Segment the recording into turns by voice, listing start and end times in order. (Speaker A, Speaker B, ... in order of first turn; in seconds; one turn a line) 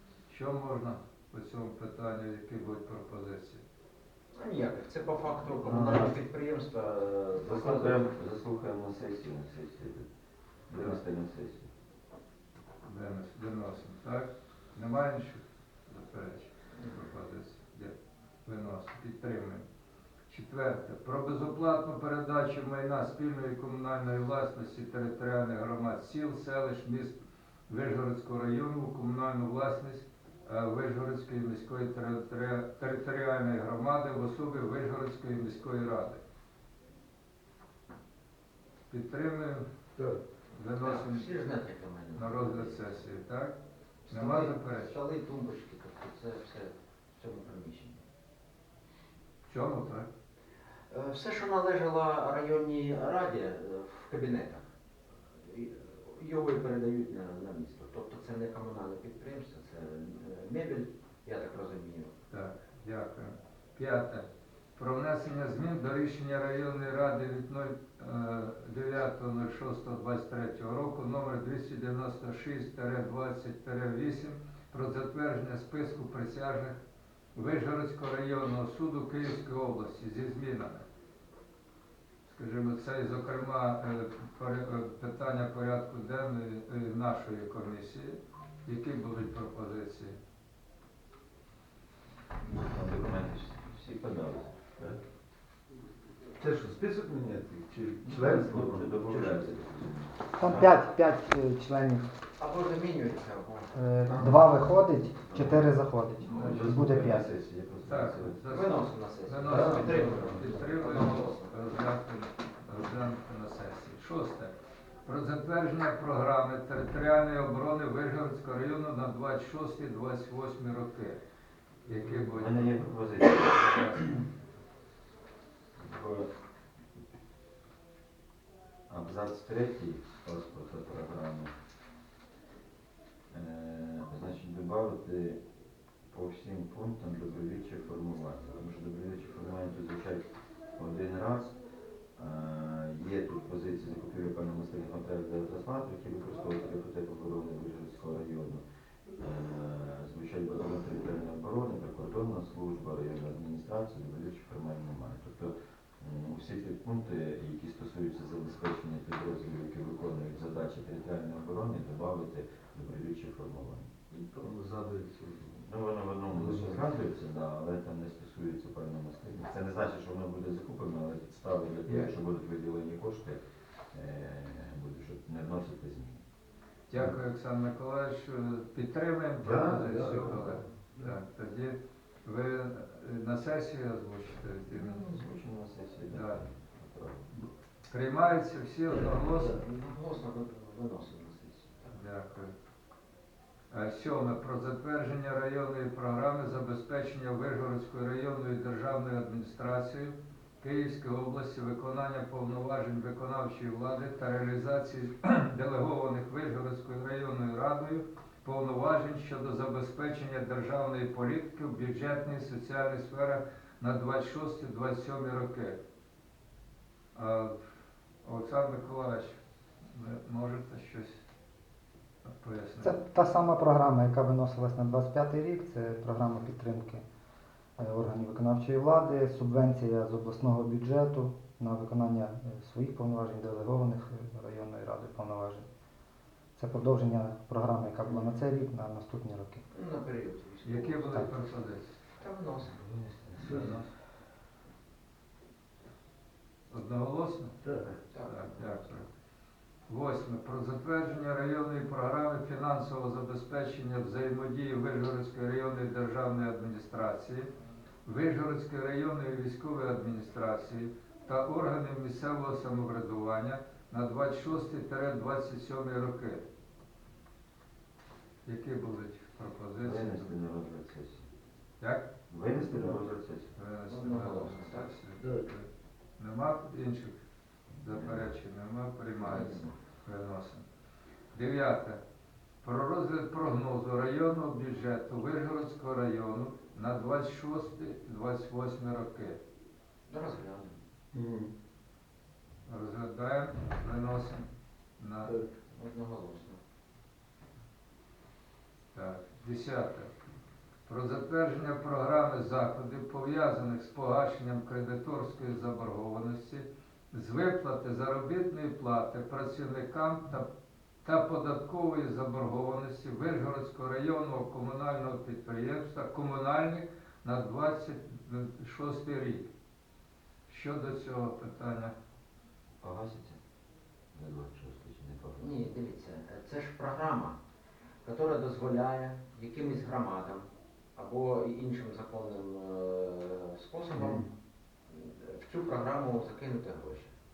Speaker A: 0.3-3.6
Speaker B: 4.3-8.0
Speaker C: 5.6-6.1
Speaker C: 7.4-10.1
Speaker C: 10.7-11.7
Speaker A: 12.8-17.9
Speaker B: 16.7-17.0
Speaker A: 18.4-19.6
Speaker A: 20.3-27.2
Speaker A: 27.7-36.2
Speaker A: 38.9-39.7
Speaker A: 40.5-41.4
Speaker B: 40.8-43.1
Speaker A: 42.1-43.5
Speaker B: 44.1-48.0
Speaker A: 44.1-45.0
Speaker A: 49.5-50.1
Speaker B: 50.9-54.6
Speaker B: 55.5-62.1
Speaker A: 62.3-76.8
Speaker A: 77.3-80.8
Speaker A: 82.2-90.2
Speaker C: 92.6-95.0
Speaker D: 96.4-99.5
Speaker C: 98.0-100.8
Speaker E: 100.4-102.1
Speaker B: 102.4-103.7
Speaker E: 103.7-107.3
Speaker D: 104.1-104.4
Speaker C: 105.3-105.6
Speaker C: 106.2-108.4
Speaker A: 106.3-107.0
Speaker A: 107.8-114.5
Speaker B: 108.5-111.6
Speaker D: 109.4-110.5
Speaker A: 115.0-121.2
Speaker A: 121.8-122.8
Speaker C: 122.2-124.1
Speaker A: 123.3-124.1
Speaker C: 125.8-126.3
Speaker C: 128.9-131.5
Speaker C: 133.3-135.4
Speaker C: 136.1-141.6
Speaker C: 142.2-148.6
Speaker C: 149.2-163.9
Speaker D: 164.1-165.6
Speaker C: 165.6-173.4
Speaker D: 166.3-166.8
Speaker C: 173.9-176.2
Speaker A: 176.9-185.1
Speaker D: 179.4-181.2
Speaker C: 184.7-187.3
Speaker A: 186.1-186.4
Speaker A: 187.9-189.6
Speaker D: 188.9-189.6
Speaker B: 189.5-191.9
Speaker A: 191.9-192.5
Speaker A: 193.7-215.8
Speaker A: 217.1-217.6
Speaker A: 218.2-219.4
Speaker A: 219.9-221.2
Speaker A: 222.2-223.0
Speaker E: 222.8-227.0
Speaker E: 227.8-235.6
Speaker E: 236.6-239.6
Speaker B: 239.7-241.2
Speaker A: 240.6-241.9
Speaker B: 242.2-242.8
Speaker C: 242.9-243.6
Speaker D: 243.4-243.8
Speaker A: 243.4-243.8
Speaker A: 246.7-247.6
Speaker D: 247.6-248.0
Speaker B: 248.1-248.9
Speaker A: 248.2-249.1
Speaker A: 249.9-257.5
Speaker A: 258.0-266.4
Speaker A: 268.4-270.3
Speaker C: 269.8-271.3
Speaker C: 272.3-273.5
Speaker D: 272.7-273.0
Speaker A: 273.6-275.6
Speaker B: 273.9-274.9
Speaker D: 275.2-275.5
Speaker A: 276.2-277.1
Speaker C: 277.7-278.3
Speaker A: 277.8-280.6
Speaker B: 279.2-279.8
Speaker A: 281.3-282.0
Speaker A: 282.6-289.4
Speaker B: 290.1-290.8
Speaker D: 291.1-291.5
Speaker A: 292.6-294.4
Speaker A: 295.0-295.4
Speaker B: 295.7-296.6
Speaker A: 298.9-300.1
Speaker A: 300.9-310.5
Speaker A: 311.0-319.5
Speaker A: 320.5-321.9
Speaker C: 322.8-323.4
Speaker C: 324.1-325.7
Speaker B: 325.4-327.4
Speaker B: 328.0-334.2
Speaker D: 333.9-334.3
Speaker B: 334.9-337.1